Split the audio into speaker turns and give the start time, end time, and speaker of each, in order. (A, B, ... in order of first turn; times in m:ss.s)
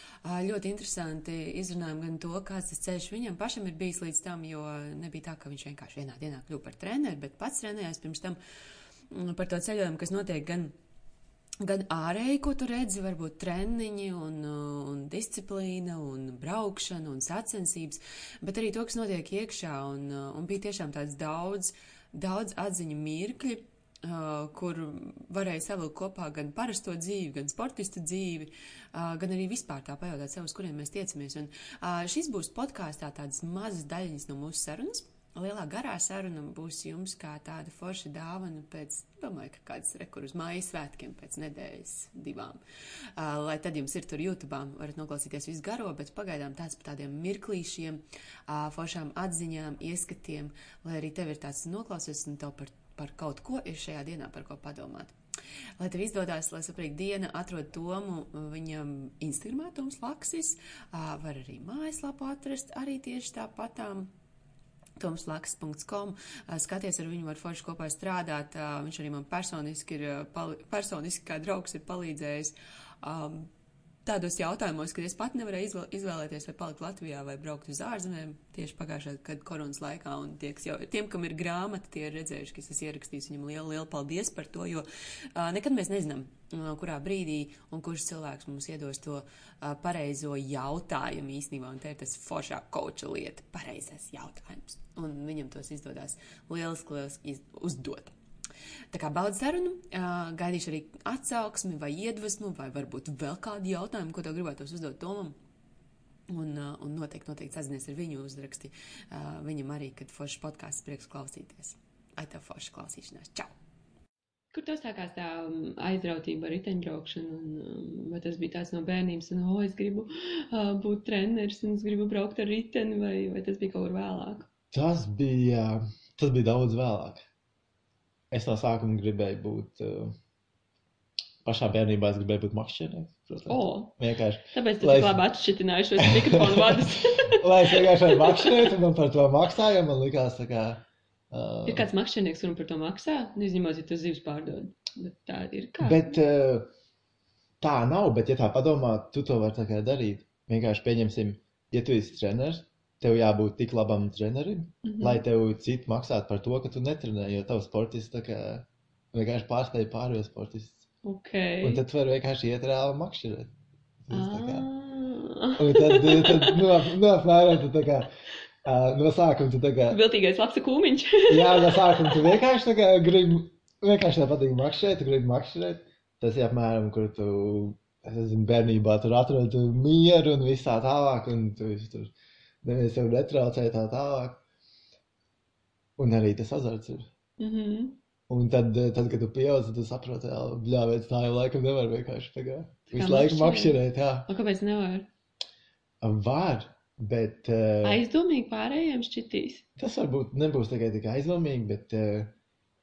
0:00.2-0:08.4 A
0:09.1-0:10.7 A
0:11.6-0:42.6 A
0:43.2-0:55.1 A
0:55.8-1:04.1 A
1:05.0-1:13.5 A
1:14.0-1:38.1 A
1:38.9-1:45.4 A
1:46.3-1:53.5 A
1:54.5-2:04.4 B
2:04.7-2:07.2 C
2:08.3-2:10.1 C
2:11.4-2:15.2 C
2:13.5-2:13.9 B
2:14.5-2:18.8 B
2:16.0-2:21.9 C
2:21.6-2:26.2 B
2:25.8-2:26.6 C
2:27.6-2:40.8 C
2:34.8-2:35.2 B
2:41.0-2:41.8 B
2:41.6-2:43.5 C
2:44.0-2:44.7 C
2:44.1-2:46.6 B
2:45.6-2:48.1 C
2:48.6-2:50.0 C
2:49.9-2:52.4 B
2:51.3-3:04.4 C
3:06.0-3:07.1 C
3:07.4-3:08.0 B
3:08.3-3:14.3 C
3:12.9-3:15.1 B
3:16.0-3:18.0 C
3:17.8-3:19.6 B
3:19.8-3:22.3 C